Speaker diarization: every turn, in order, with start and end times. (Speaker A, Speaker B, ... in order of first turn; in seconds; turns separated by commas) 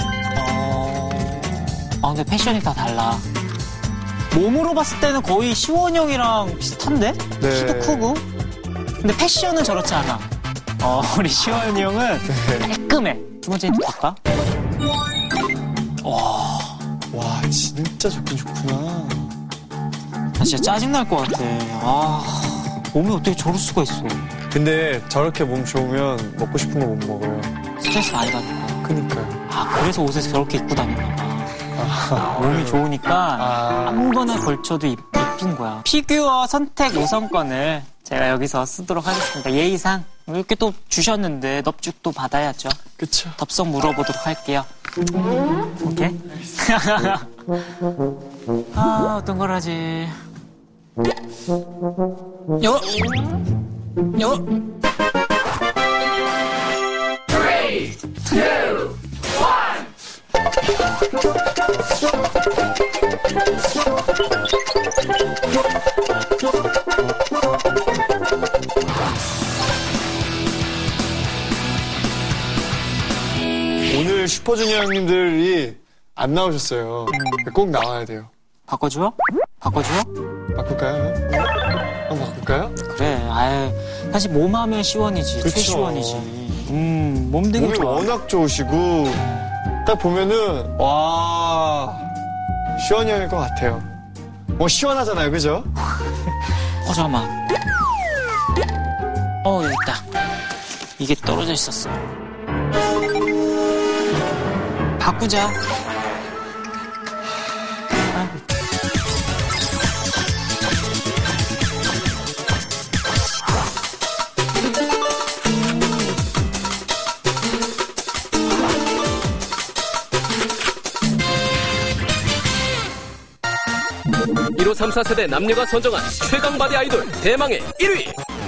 Speaker A: 0.3-3.2, Speaker A: 4.3-8.2, Speaker B: 7.4-8.1, Speaker A: 9.0-10.3, Speaker A: 10.8-14.2, Speaker B: 12.3-12.7, Speaker A: 16.0-16.8, Speaker B: 17.1-19.3, Speaker A: 20.4-24.2, Speaker B: 24.5-27.5, Speaker A: 27.8-28.8, Speaker B: 28.8-29.4, Speaker A: 29.5-31.6, Speaker B: 31.8-34.1, Speaker A: 32.2-42.8, Speaker B: 43.0-43.4, Speaker A: 43.4-44.7, Speaker A: 45.8-47.3, Speaker A: 48.7-50.2, Speaker A: 52.6-52.9, Speaker A: 54.1-54.4, Speaker B: 73.9-78.3, Speaker A: 77.1-77.5, Speaker A: 78.7-80.1, Speaker B: 80.5-81.3, Speaker B: 82.1-82.8, Speaker A: 82.8-88.1, Speaker B: 85.4-86.3, Speaker B: 87.5-89.3, Speaker B: 89.8-92.1, Speaker B: 92.8-93.8, Speaker B: 94.6-95.7, Speaker A: 96.8-97.3, Speaker A: 99.4-100.0, Speaker A: 101.0-102.0, Speaker A: 105.0-105.6, Speaker C: 124.5-128.2